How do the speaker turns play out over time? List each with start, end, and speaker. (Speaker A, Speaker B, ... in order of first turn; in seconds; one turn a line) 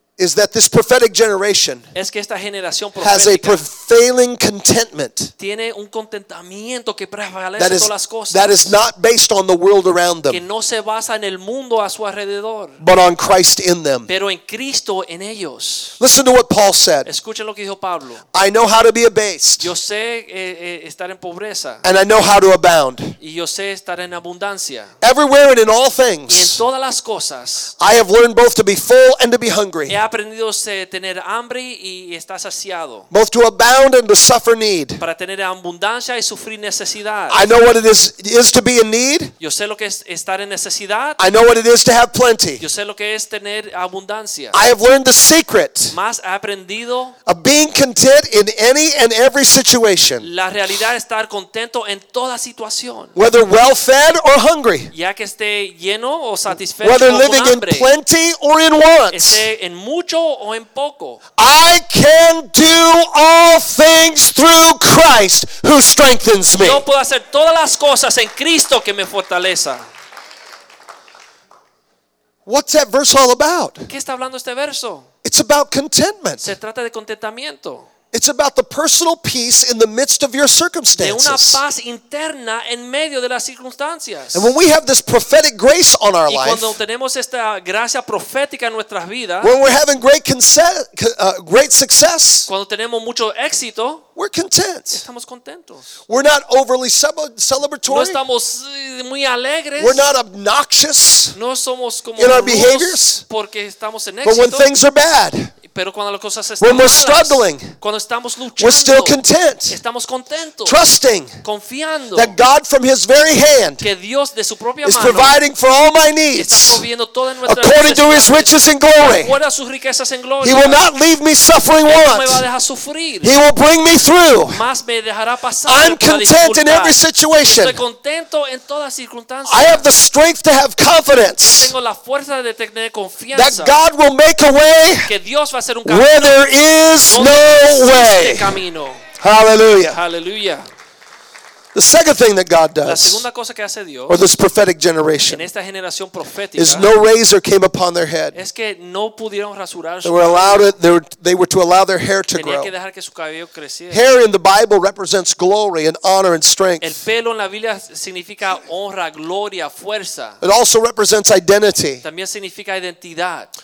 Speaker A: 0.2-1.9
Speaker B: 1.9-3.7
Speaker A: 3.0-5.3
Speaker B: 5.4-8.8
Speaker A: 7.6-10.4
Speaker B: 10.3-12.8
Speaker A: 12.8-14.1
Speaker B: 14.1-16.0
Speaker A: 16.0-17.1
Speaker B: 17.1-18.2
Speaker A: 18.3-19.7
Speaker B: 19.6-21.8
Speaker A: 21.8-23.2
Speaker B: 23.2-24.9
Speaker A: 25.0-26.6
Speaker B: 26.3-27.7
Speaker A: 27.8-30.0
Speaker B: 29.9-33.1
Speaker A: 33.1-35.0
Speaker B: 35.0-37.5
Speaker A: 37.3-39.3
Speaker B: 39.4-41.2
Speaker A: 41.2-42.6
Speaker B: 42.6-44.6
Speaker A: 44.5-46.0
Speaker B: 45.9-47.2
Speaker A: 47.3-50.3
Speaker B: 50.2-53.2
Speaker A: 53.2-54.9
Speaker B: 54.9-57.9
Speaker A: 56.8-59.5
Speaker B: 59.1-61.2
Speaker A: 61.4-66.8
Speaker B: 66.6-69.8
Speaker A: 72.5-73.9
Speaker B: 73.9-75.1
Speaker A: 75.2-76.5
Speaker B: 76.4-77.9
Speaker A: 78.1-81.6
Speaker B: 81.0-84.5
Speaker A: 84.3-86.8
Speaker B: 86.3-89.5
Speaker A: 89.4-92.5
Speaker B: 92.5-94.0
Speaker A: 94.2-95.0
Speaker B: 94.9-96.0
Speaker A: 96.1-98.2
Speaker B: 97.9-100.1
Speaker A: 99.8-101.4
Speaker B: 101.3-104.7
Speaker A: 102.2-103.2
Speaker A: 104.2-105.5
Speaker B: 105.7-110.8
Speaker A: 106.6-107.8
Speaker A: 108.6-109.8
Speaker A: 110.6-111.4
Speaker B: 111.4-112.4
Speaker A: 112.2-113.9
Speaker B: 113.8-115.4
Speaker A: 114.8-116.8
Speaker B: 116.3-120.8
Speaker A: 117.4-119.4
Speaker A: 120.4-122.4
Speaker B: 121.8-123.3
Speaker A: 123.2-124.6
Speaker B: 124.5-129.9
Speaker A: 125.7-127.8
Speaker A: 129.5-131.7
Speaker B: 131.4-133.8
Speaker A: 133.3-135.1
Speaker B: 135.1-136.4
Speaker A: 135.9-138.6
Speaker B: 137.1-139.1
Speaker A: 139.2-140.0
Speaker B: 139.9-140.7
Speaker A: 141.7-143.2
Speaker B: 142.8-144.2
Speaker A: 144.1-145.5
Speaker B: 145.3-146.9
Speaker A: 146.6-148.4
Speaker B: 148.3-150.8
Speaker A: 150.0-152.7
Speaker B: 152.3-154.0
Speaker A: 153.9-157.0
Speaker B: 156.8-160.4
Speaker A: 160.4-162.0
Speaker B: 162.0-163.5